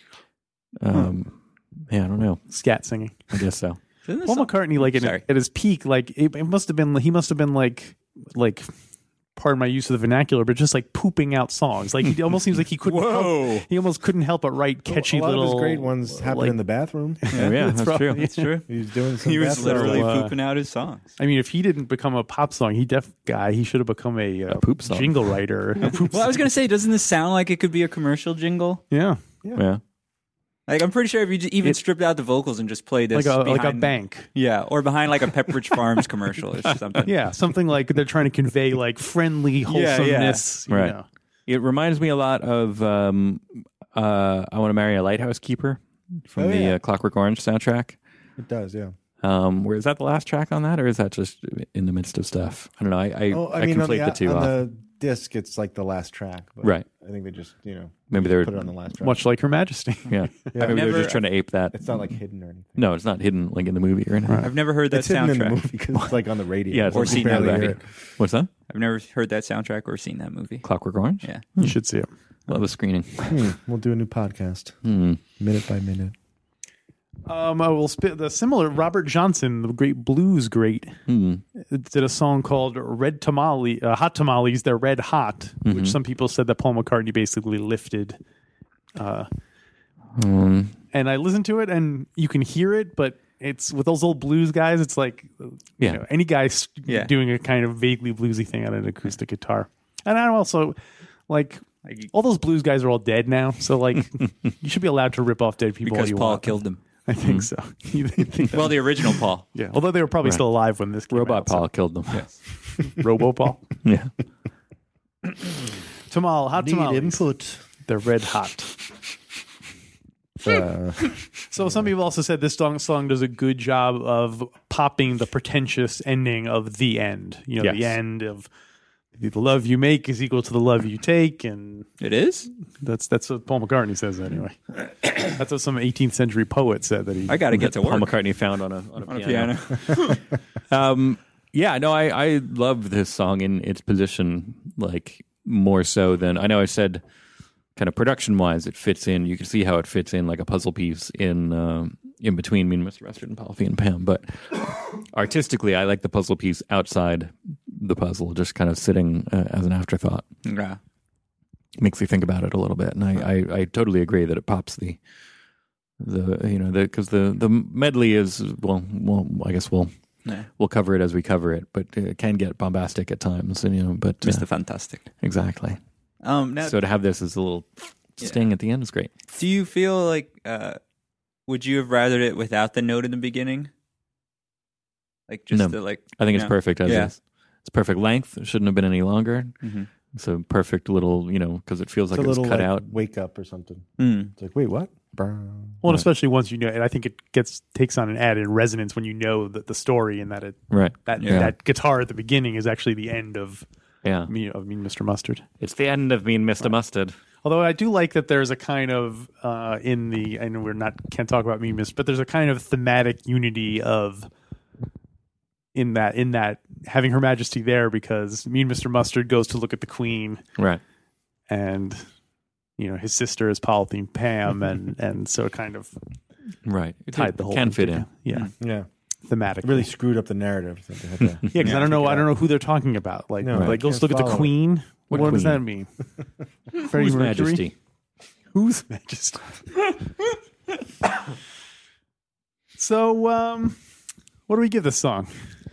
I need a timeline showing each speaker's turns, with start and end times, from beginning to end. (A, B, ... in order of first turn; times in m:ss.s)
0:00.8-0:02.4 A
0:02.5-0:03.2 B
0:03.3-0:03.8 A
0:04.1-0:05.2 C
0:04.2-0:08.6 B
0:09.4-0:16.6 B
0:12.8-0:13.7 C
0:14.9-0:17.3 D
0:17.2-0:18.6 B
0:17.3-0:18.2 A
0:17.3-0:18.6 C
0:18.7-0:20.3 D
0:19.2-0:21.1 C
0:19.5-0:20.4 B
0:21.2-0:26.4 B
0:24.5-0:25.3 A
0:25.9-0:28.8 C
0:28.9-0:29.2 B
0:29.6-0:29.8 A
0:30.7-0:37.2 C
0:33.1-0:34.3 B
0:37.0-0:41.0 B
0:39.7-0:40.4 C
0:40.7-0:48.0 A
0:46.4-0:46.8 D
0:48.4-0:48.9 D
0:49.2-0:54.6 A
0:53.3-0:59.2 D
0:58.1-0:58.5 A
0:59.0-1:00.3 B
1:00.1-1:01.8 A
1:00.5-1:01.1 D
1:00.6-1:01.2 C
1:01.7-1:02.8 D
1:02.8-1:04.4 A
1:04.3-1:04.5 B
1:04.4-1:05.6 C
1:04.9-1:07.9 D
1:06.7-1:08.5 A
1:06.9-1:07.7 C
1:08.7-1:10.6 C
1:10.6-1:11.7 A
1:11.2-1:11.5 C
1:11.6-1:12.1 B
1:12.5-1:13.4 A
1:13.3-1:14.8 D
1:14.8-1:15.2 A
1:15.4-1:16.1 D
1:17.2-1:21.0 B
1:21.1-1:21.4 A
1:21.6-1:28.2 B
1:25.6-1:26.0 A
1:28.9-1:29.3 B
1:30.2-1:30.7 A
1:30.9-1:40.8 B
1:41.3-1:51.7 B
1:41.8-1:42.1 C
1:45.8-1:46.8 C
1:47.2-1:47.5 A
1:48.5-1:49.4 C
1:51.1-1:52.2 A
1:52.7-1:53.6 B
1:53.8-1:54.1 A
1:56.1-1:58.8 B
2:00.4-2:01.9 D
2:01.4-2:08.5 B
2:07.6-2:08.0 A
2:09.2-2:11.9 B
2:12.0-2:12.5 C
2:12.8-2:17.4 B
2:17.3-2:18.2 C
2:17.5-2:20.1 A
2:19.0-2:20.2 C
2:20.7-2:27.0 A
2:27.8-2:40.2 A
2:40.4-2:40.8 C
2:41.8-2:45.0 A
2:46.0-2:49.9 A
2:50.6-2:54.4 A
2:54.2-2:55.1 C
2:55.2-2:55.8 A
2:56.2-2:56.8 C
2:56.6-2:59.1 A
2:58.2-2:58.5 C
2:59.3-3:00.8 C
3:01.5-3:03.7 C
3:05.3-3:07.1 C
3:05.5-3:09.5 A
3:09.6-3:09.9 C
3:10.1-3:12.8 A
3:12.1-3:15.8 D
3:14.0-3:14.3 C
3:15.8-3:23.6 B
3:20.7-3:21.5 A
3:21.2-3:21.5 C
3:24.0-3:24.3 A
3:24.3-3:25.4 B
3:25.6-3:27.1 A
3:27.4-3:34.3 B
3:35.7-3:40.4 B
3:41.5-3:42.0 B
3:42.8-3:46.0 B
3:46.6-3:48.1 A
3:47.1-3:48.5 B
3:48.6-3:48.9 D
3:49.2-3:49.9 B
3:49.6-3:52.3 D
3:51.5-3:55.9 B
3:51.6-3:51.9 C
3:53.4-3:54.6 D
3:53.5-3:53.8 A
3:55.1-3:55.6 A
3:55.1-3:55.4 D
3:56.7-3:57.7 B
3:56.9-3:57.7 A
3:58.5-3:59.5 B
4:02.8-4:03.8 B
4:04.5-4:05.3 B